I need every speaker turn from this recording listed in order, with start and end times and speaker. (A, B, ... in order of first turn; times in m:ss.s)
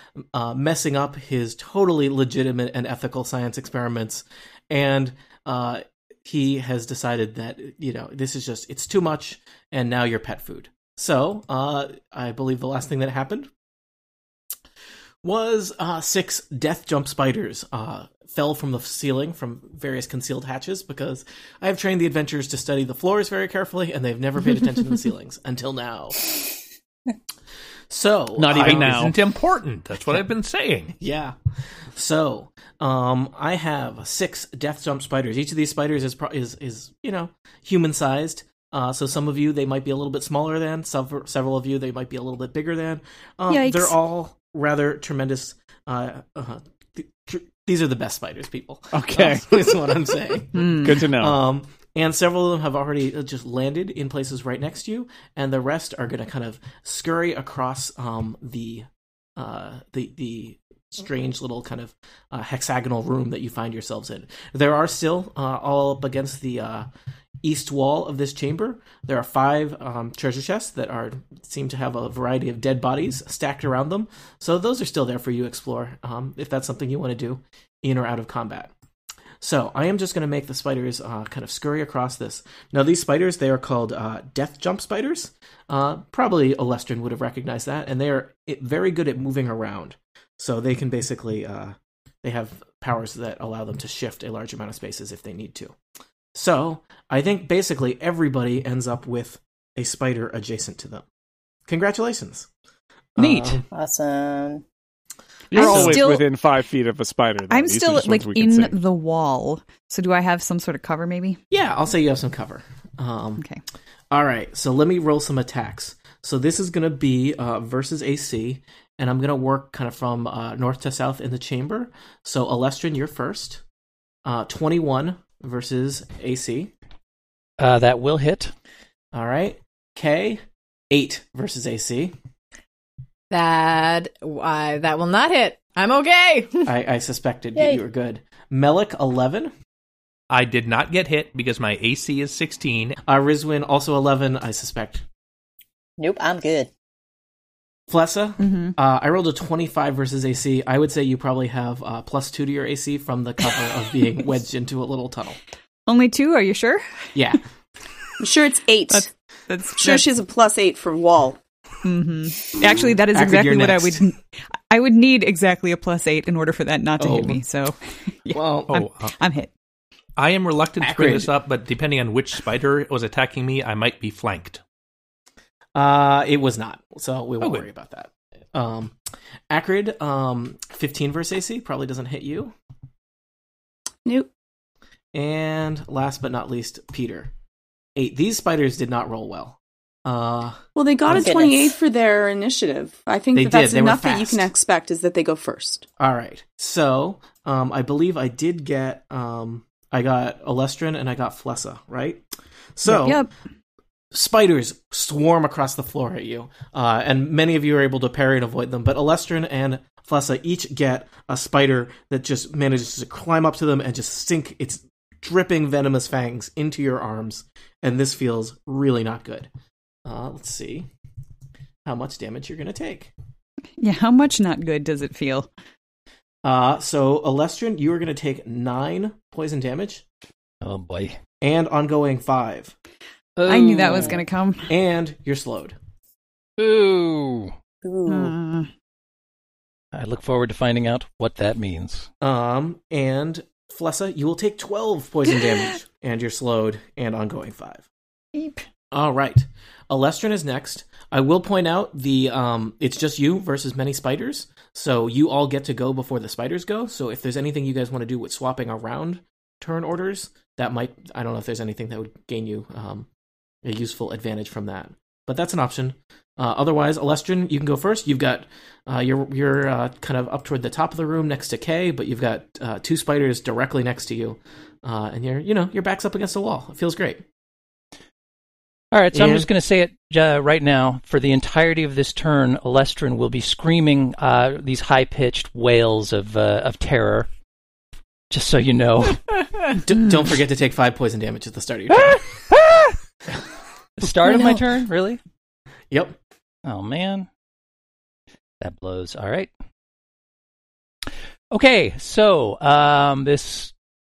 0:00.3-0:13.5 A
0:15.2-0:26.3 A
0:27.9-0:29.2 A
0:28.4-0:29.1 B
0:28.5-0:31.0 C
0:31.0-0:31.4 A
0:32.0-1:06.9 A
0:43.5-0:44.0 D
0:48.9-0:49.5 B
0:50.6-0:50.9 D
0:50.7-0:51.4 B
1:07.4-1:18.7 A
1:19.4-1:35.7 A
1:36.4-1:41.0 A
1:41.7-1:42.5 A
1:43.2-1:43.7 A
1:43.2-1:43.6 E
1:43.7-1:44.6 F
1:45.5-1:48.8 B
1:45.5-1:46.2 D
1:45.5-1:46.1 A
1:47.5-1:51.4 D
1:51.5-1:53.4 A
1:54.1-2:03.6 A
2:04.2-2:06.7 A
2:07.6-2:08.5 E
2:09.1-2:12.1 A
2:13.3-2:16.7 G
2:16.7-2:19.5 A
2:17.6-2:17.8 F
2:20.3-2:23.0 C
2:23.1-2:25.0 A
2:26.0-2:26.7 F
2:27.9-2:35.4 A
2:28.4-2:28.7 D
2:35.9-2:37.1 D
2:37.2-2:37.4 A
2:38.2-2:39.1 H
2:38.9-2:40.1 D
2:39.8-2:41.4 H
2:41.8-2:49.5 D
2:42.7-2:44.0 A
2:47.0-2:47.4 A
2:48.3-2:48.7 A
2:48.7-2:49.1 C
2:50.2-2:54.6 C
2:50.8-2:51.3 A
2:55.8-2:58.9 A
2:59.5-3:02.5 A
3:04.0-3:04.3 H
3:05.1-3:07.3 A
3:08.0-3:11.1 A
3:10.8-3:15.8 H
3:11.1-3:11.7 F
3:13.4-3:14.5 A
3:16.0-3:22.2 A
3:22.8-3:23.3 A
3:22.9-3:23.3 D
3:24.1-3:39.5 A
3:40.0-3:40.9 A
3:41.8-3:43.1 A
3:43.8-3:45.5 D
3:46.4-3:50.0 A
3:50.6-3:51.2 E
3:51.4-3:52.7 A
3:53.4-3:54.0 A
3:53.5-3:54.7 D
3:53.7-3:54.1 E
3:54.7-3:55.8 A
3:56.6-3:57.5 E
3:57.8-3:58.4 F
3:58.1-3:58.7 D
3:59.9-4:02.1 E
4:02.2-4:07.8 A
4:08.4-4:08.6 D
4:08.9-4:23.1 A
4:23.6-4:37.2 A
4:38.9-4:47.3 E
4:39.1-4:39.5 A
4:48.3-4:49.4 E
4:49.7-4:52.4 A
4:51.9-4:53.0 E
4:54.0-4:55.2 E
4:55.9-4:56.2 A
4:56.6-4:57.3 E
4:58.6-4:59.5 E
5:01.5-5:03.7 E